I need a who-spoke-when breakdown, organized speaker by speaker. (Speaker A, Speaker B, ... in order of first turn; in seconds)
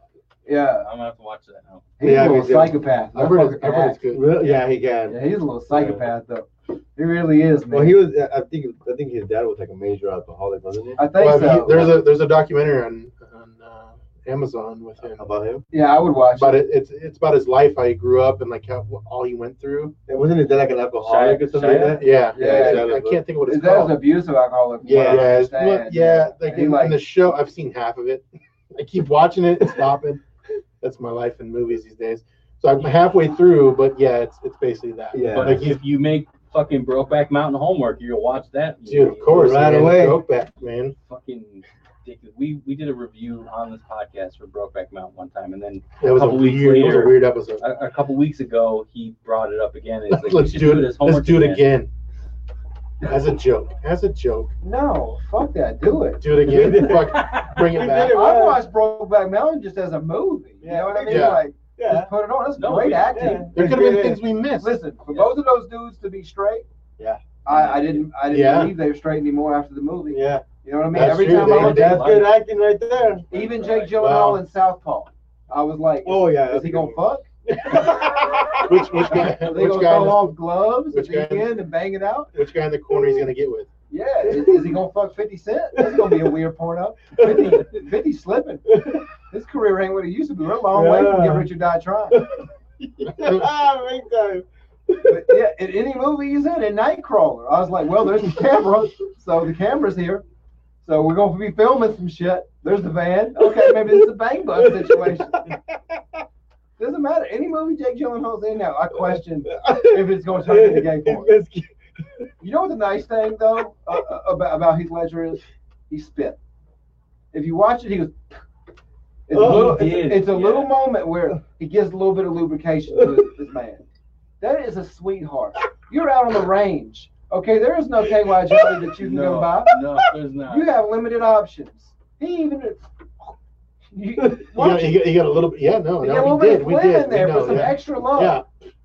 Speaker A: 0.4-0.9, 2.0-4.0, 5.1-8.0, 11.0-12.0, 15.7-16.6, 22.3-27.0, 54.6-56.2, 58.0-63.5, 64.6-66.6, 67.4-72.0, 73.3-77.3, 79.1-82.3, 83.9-88.7, 89.3-92.2, 95.0-100.2, 100.8-105.5, 106.8-111.3, 112.4-116.4, 117.3-118.2, 119.3-123.8, 124.4-129.8, 130.5-133.3, 133.9-135.1, 136.0-138.4
Speaker B: 0.8-1.9, 21.0-22.0, 35.3-39.9, 41.1-51.6, 57.0-57.6, 62.5-63.5, 65.1-65.3, 67.5-68.0, 71.3-72.3, 73.3-74.0, 119.3-120.7, 129.0-130.7
Speaker C: 2.0-2.8, 4.1-5.2, 5.7-6.0, 7.7-11.1, 15.1-15.6, 20.1-23.2, 24.8-25.3, 35.1-35.7, 39.3-40.2, 56.4-58.6, 60.6-62.1, 63.1-64.2, 70.1-70.5, 71.3-73.3, 76.0-78.6, 84.3-84.7, 85.8-86.3, 87.2-87.7, 88.7-89.0, 90.7-91.5, 92.1-95.2, 103.4-105.6, 109.5-111.7, 119.3-120.1, 122.9-123.3, 128.2-128.8
Speaker D: 3.1-4.4, 11.1-15.2, 16.3-19.9, 21.9-24.0, 25.0-30.2, 30.8-35.8, 38.9-40.9, 46.0-47.6, 50.1-51.9, 53.0-54.5, 56.2-58.3, 61.1-61.4, 63.5-64.8, 68.3-68.7, 70.9-72.1, 74.0-74.4, 78.6-80.4, 80.9-81.5, 82.3-83.7, 93.1-93.5, 134.5-138.4